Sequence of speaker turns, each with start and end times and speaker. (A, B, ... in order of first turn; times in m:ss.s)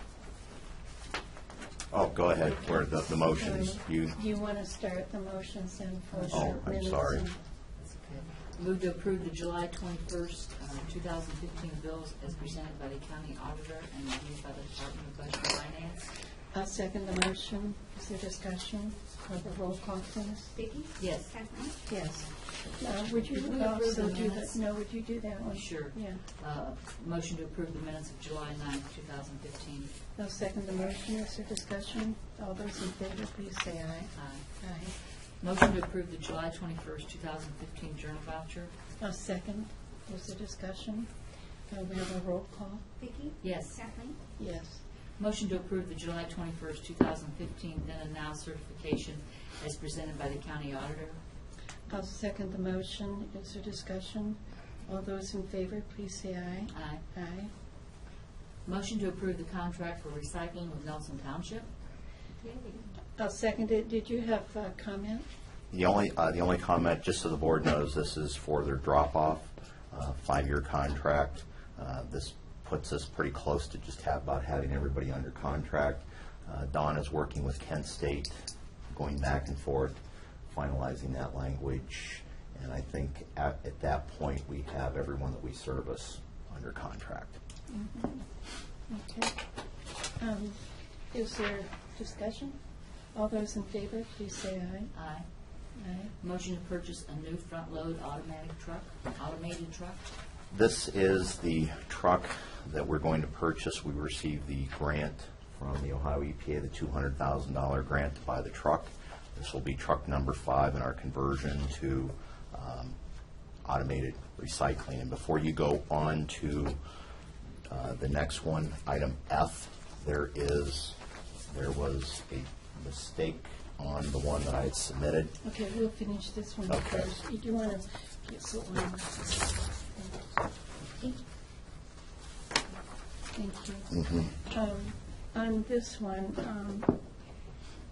0:01.9-0:04.2 A
0:02.4-0:07.4 B
0:06.1-0:06.6 C
0:06.3-0:07.3 A
0:07.7-0:16.3 C
0:16.5-0:20.6 B
0:20.5-0:21.8 D
0:21.0-0:24.7 C
0:21.8-0:26.2 B
0:25.5-0:30.0 C
0:30.2-0:35.0 B
0:34.1-0:38.7 C
0:39.0-0:42.8 B
0:43.0-0:44.2 D
0:43.4-0:44.0 C
0:44.4-0:44.8 B
0:45.1-0:51.2 C
0:51.9-0:57.5 B
0:56.7-0:57.0 C
0:58.6-1:01.7 C
1:02.4-1:02.9 D
1:03.2-1:05.2 B
1:05.7-1:27.4 A
1:27.7-1:29.4 B
1:30.2-1:34.9 B
1:34.9-1:35.3 C
1:35.7-1:36.1 B
1:36.2-1:40.1 C
1:40.5-1:53.0 A
1:53.6-1:56.8 A
1:57.7-2:05.4 A
2:05.4-2:10.4 B
2:06.7-2:07.1 A
2:13.3-2:17.0 B